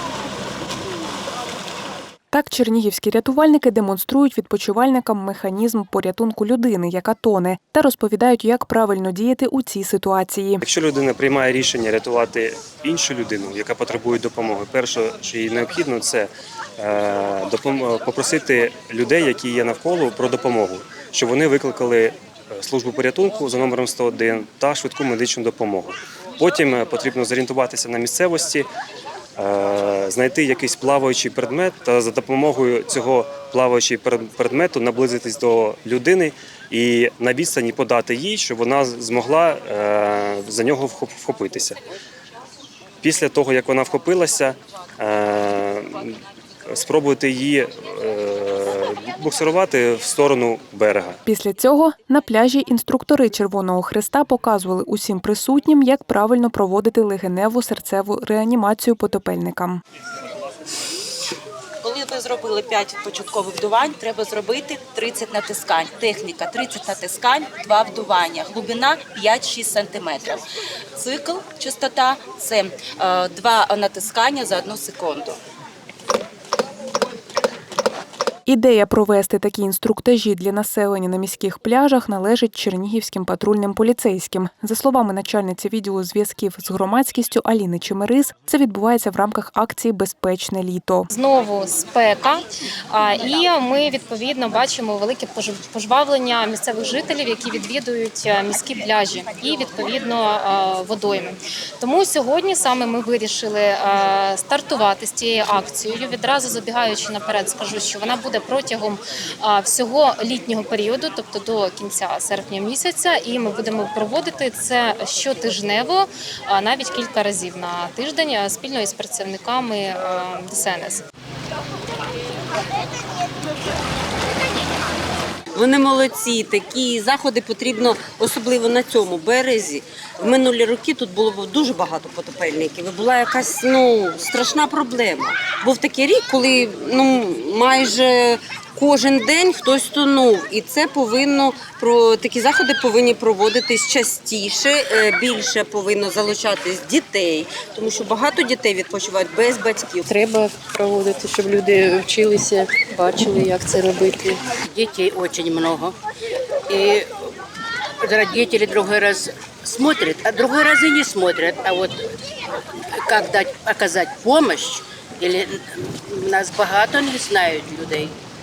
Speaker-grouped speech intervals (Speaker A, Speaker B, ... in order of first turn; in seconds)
Speaker A: 2.3-10.6, 51.3-59.8, 78.5-91.1
Speaker B: 10.6-28.7, 29.4-41.8, 43.0-46.1, 46.7-51.2
Speaker C: 61.8-70.4, 71.0-75.4
Speaker D: 91.1-121.0
Speaker E: 125.5-150.1
Speaker F: 150.1-154.4
Speaker G: 154.7-155.9, 156.7-157.1, 158.0-162.0, 163.1-168.1